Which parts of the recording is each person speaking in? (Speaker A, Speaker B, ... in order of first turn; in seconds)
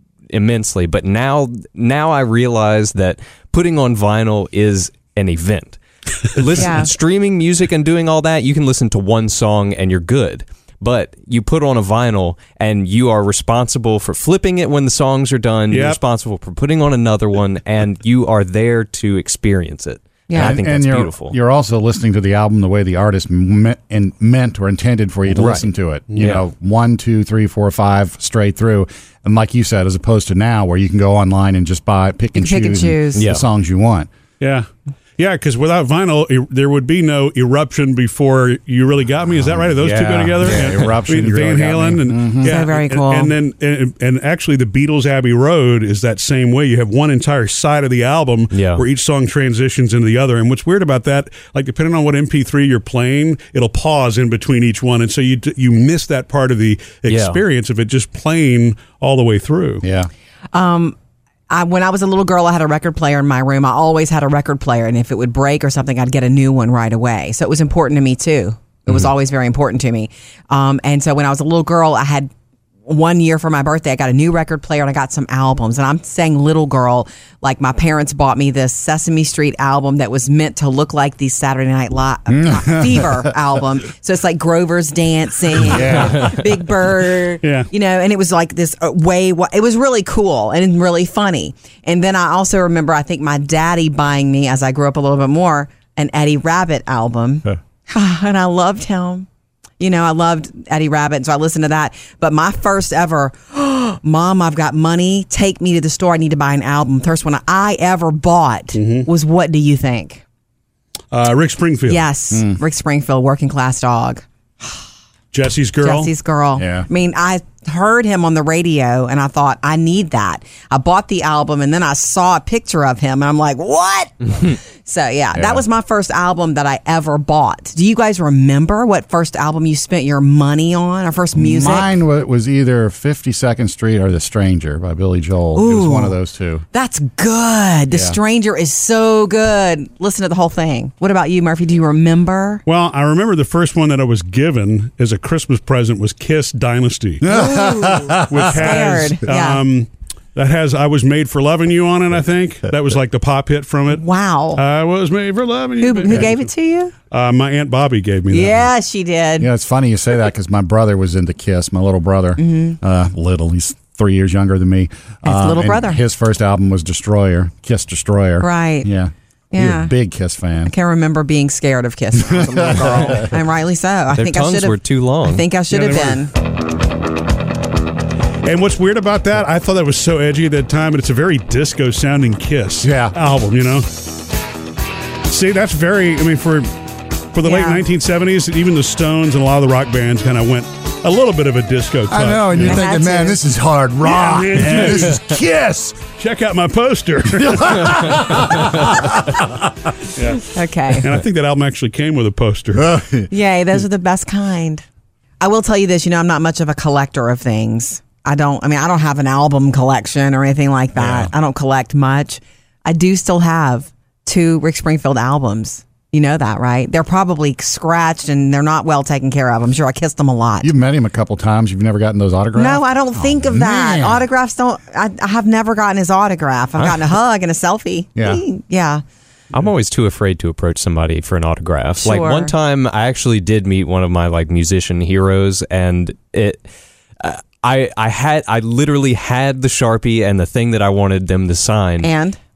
Speaker A: 0.3-21.4, 25.3-25.6, 26.2-26.4, 33.1-33.4, 48.5-48.8, 57.1-57.4, 172.5-173.3, 174.1-175.4, 229.5-236.7, 237.2-242.1
Speaker B: 6.5-6.9, 20.3-20.6, 32.3-33.2, 42.4-43.3, 60.5-61.0, 61.5-72.3, 72.8-99.3, 99.8-110.2, 111.9-114.8, 115.8-131.9, 135.5-136.2, 136.7-142.6, 147.2-149.6, 153.9-154.6, 155.8-156.9, 158.3-159.5, 162.4-162.8, 165.2-166.0, 168.4-168.9, 169.5-169.9, 170.7-176.3, 187.4-187.8, 192.6-193.4, 200.5-201.1, 203.3-204.8, 205.4-220.7, 222.6-229.0, 232.0-232.5, 242.0-242.4
Speaker C: 15.7-16.0, 34.4-34.7, 35.2-59.8, 87.4-87.7, 108.7-109.1, 111.1-112.1, 115.3-116.1, 142.7-147.3, 148.3-156.5, 157.1-158.7, 175.7-176.2, 178.4-183.9, 185.2-186.7, 187.3-192.8, 194.0-195.3, 196.1-198.9, 200.1-203.0
Speaker D: 20.3-34.1, 39.5-42.6, 59.8-60.1, 82.3-83.3, 85.6-86.3, 112.3-112.6, 116.6-116.9, 125.3-125.6, 131.3-136.6, 147.2-148.8, 159.4-170.7, 172.2-173.2, 182.8-183.2, 192.1-196.0, 197.6-199.2, 202.8-203.3, 210.9-211.3, 220.6-224.2, 228.2-228.4